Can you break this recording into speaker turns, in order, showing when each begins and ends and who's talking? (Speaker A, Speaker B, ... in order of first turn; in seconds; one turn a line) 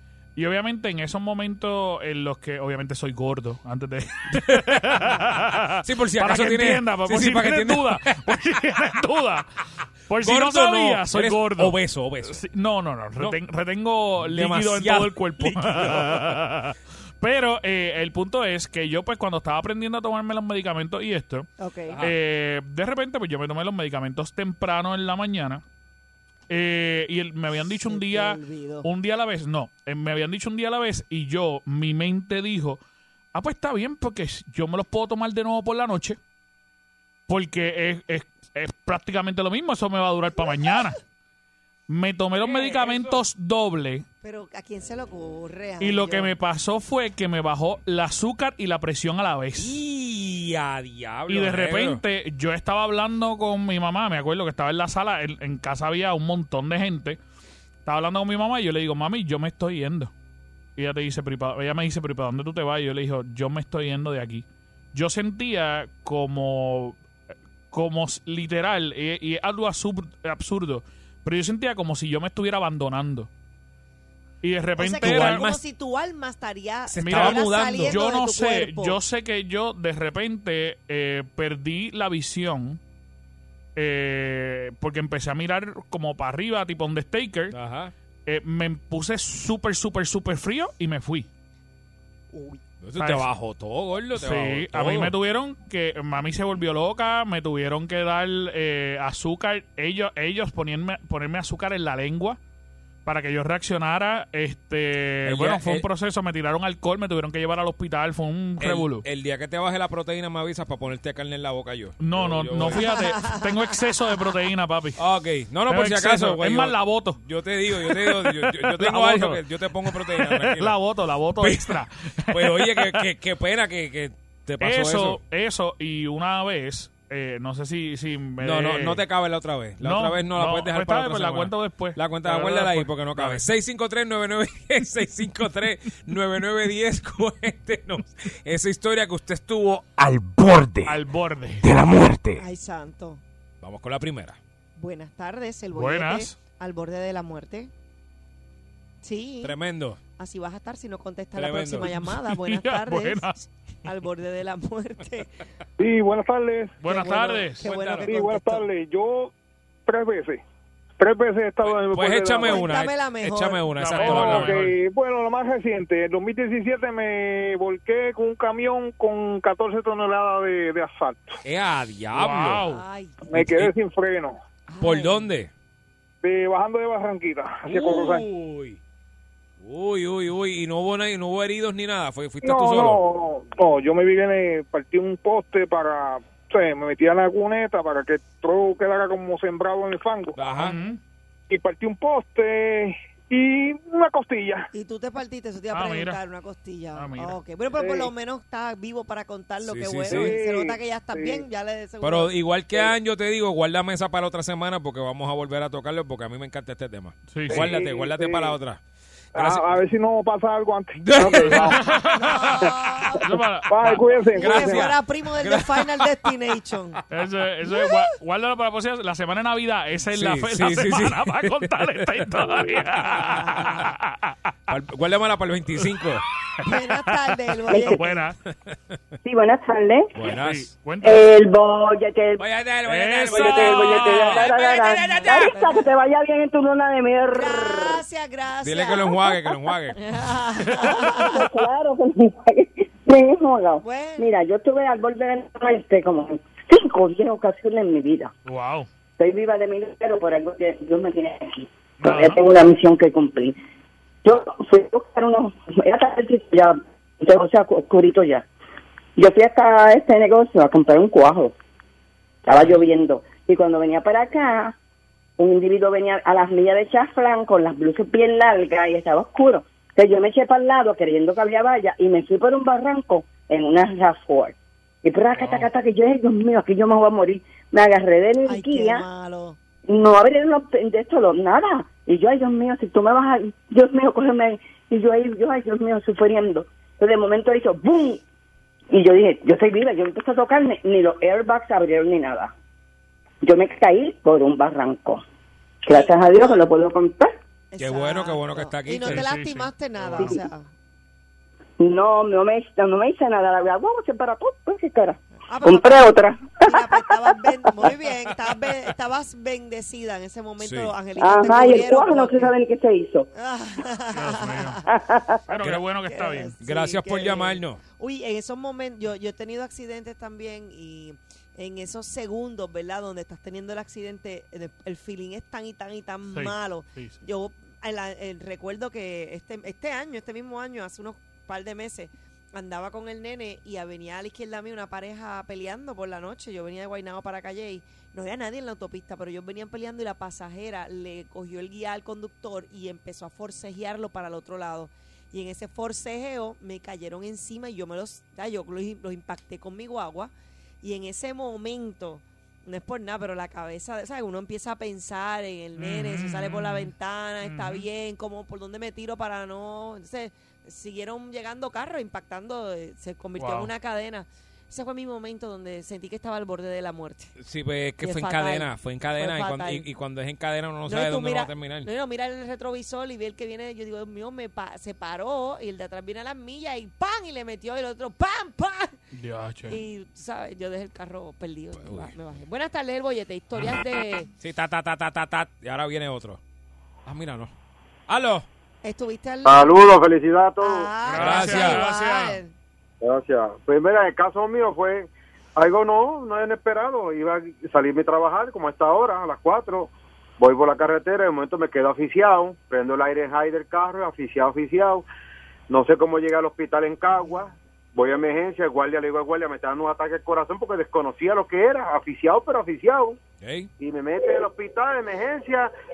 Speaker A: 0.4-9.5
Speaker B: 4.3-8.3
Speaker A: 10.1-11.8
Speaker B: 10.2-12.4
Speaker A: 12.3-21.5
Speaker B: 14.2-16.4
Speaker C: 21.6-22.0
Speaker B: 21.9-22.2
Speaker A: 22.0-25.6
Speaker A: 26.5-32.8
Speaker C: 27.9-28.9
Speaker A: 33.3-36.2
Speaker A: 37.3-41.0
Speaker A: 41.9-44.1
Speaker B: 42.4-43.2
Speaker C: 44.2-46.3
Speaker A: 45.8-49.8
Speaker B: 49.6-52.0
Speaker A: 51.3-57.2
Speaker A: 57.9-60.1
Speaker A: 60.8-67.0
Speaker A: 67.7-73.3
Speaker A: 74.4-75.4
Speaker C: 74.8-79.0
Speaker B: 75.0-75.6
Speaker B: 76.9-78.0
Speaker A: 77.0-82.8
Speaker A: 83.8-87.5
Speaker B: 87.5-87.9
Speaker A: 88.3-91.3
Speaker C: 92.3-92.6
Speaker B: 92.8-95.1
Speaker A: 93.0-93.3
Speaker A: 94.2-102.4
Speaker A: 103.0-109.0
Speaker B: 105.2-105.9
Speaker B: 108.6-113.0
Speaker A: 112.0-115.0
Speaker C: 112.9-113.5
Speaker B: 115.0-120.8
Speaker A: 115.7-117.2
Speaker A: 117.9-123.0
Speaker B: 121.4-125.2
Speaker A: 124.6-129.0
Speaker B: 128.4-141.0
Speaker A: 129.8-133.4
Speaker A: 140.8-141.7
Speaker B: 141.6-142.4
Speaker C: 142.4-143.2
Speaker B: 143.6-144.4
Speaker C: 144.8-147.7
Speaker A: 145.7-146.3
Speaker C: 149.0-149.6
Speaker B: 149.4-150.0
Speaker C: 150.2-155.3
Speaker B: 151.4-151.9
Speaker A: 151.8-153.3
Speaker D: 155.8-157.1
Speaker A: 156.8-157.7
Speaker C: 156.9-158.7
Speaker B: 157.6-158.1
Speaker D: 157.9-159.3
Speaker D: 159.9-160.4
Speaker D: 161.0-162.8
Speaker B: 161.6-164.6
Speaker C: 162.4-163.7
Speaker A: 163.8-164.8
Speaker D: 164.0-171.4
Speaker B: 171.4-172.7
Speaker A: 172.1-172.8
Speaker C: 172.7-173.2
Speaker D: 173.3-174.4
Speaker B: 173.3-173.7
Speaker C: 174.7-175.3
Speaker B: 174.8-175.5
Speaker D: 176.2-178.3
Speaker B: 177.7-178.8
Speaker B: 179.6-183.0
Speaker D: 182.4-190.4
Speaker B: 190.4-190.8
Speaker A: 190.6-191.0
Speaker D: 191.5-194.7
Speaker C: 194.7-202.3
Speaker A: 195.7-196.2
Speaker A: 197.0-197.4
Speaker D: 197.7-198.1
Speaker B: 199.6-200.3
Speaker D: 200.1-201.5
Speaker B: 202.0-208.8
Speaker A: 207.3-207.7
Speaker D: 207.5-208.6
Speaker B: 209.3-209.7
Speaker D: 209.3-211.8
Speaker B: 211.0-211.8
Speaker A: 211.3-212.7
Speaker C: 212.1-213.3
Speaker A: 213.2-214.0
Speaker D: 213.7-214.9
Speaker C: 214.3-217.0
Speaker B: 214.4-216.1
Speaker A: 217.1-224.3
Speaker B: 220.1-223.9
Speaker B: 224.7-226.2
Speaker C: 226.6-228.2
Speaker A: 227.7-228.4
Speaker E: 227.7-228.1
Speaker E: 229.2-230.1
Speaker B: 230.1-230.7
Speaker A: 230.2-231.3
Speaker E: 231.0-232.4
Speaker B: 232.4-235.5
Speaker A: 232.9-234.6
Speaker E: 233.3-238.0
Speaker C: 235.5-235.9
Speaker C: 237.3-239.4
Speaker B: 238.6-240.0
Speaker C: 240.0-241.4
Speaker A: 240.7-241.2
Speaker E: 241.2-248.3
Speaker C: 243.8-244.3
Speaker A: 248.5-248.9
Speaker E: 249.2-253.6
Speaker A: 252.0-252.4
Speaker E: 254.2-258.5
Speaker E: 259.2-261.6
Speaker E: 262.5-264.8
Speaker E: 265.4-279.0
Speaker A: 275.4-275.7
Speaker C: 278.4-279.6
Speaker E: 279.9-288.2
Speaker E: 288.9-292.5
Speaker E: 293.4-295.2
Speaker E: 295.8-297.4
Speaker C: 295.9-296.6
Speaker C: 297.7-300.7
Speaker B: 297.8-299.3
Speaker A: 299.1-300.4
Speaker E: 300.2-300.4
Speaker E: 301.8-307.5
Speaker C: 305.5-312.5
Speaker B: 310.6-310.9
Speaker E: 311.2-313.3
Speaker C: 313.4-314.8
Speaker A: 314.1-314.8
Speaker E: 314.9-315.4
Speaker A: 315.5-316.5
Speaker C: 316.1-350.3
Speaker B: 316.6-317.8
Speaker A: 326.3-327.2
Speaker C: 350.8-367.4
Speaker A: 355.8-357.9
Speaker A: 363.4-363.7
Speaker B: 367.4-371.9
Speaker C: 368.0-369.9
Speaker C: 370.9-379.0
Speaker A: 379.1-379.8
Speaker C: 379.7-384.3
Speaker B: 381.8-382.1
Speaker B: 384.4-386.4
Speaker B: 387.1-387.5
Speaker B: 388.1-388.5
Speaker C: 388.8-389.6
Speaker F: 389.4-390.9
Speaker C: 390.6-392.5
Speaker A: 391.1-392.4
Speaker B: 391.1-391.8
Speaker F: 393.0-405.1
Speaker F: 405.7-413.2
Speaker B: 413.4-413.7
Speaker F: 413.8-415.7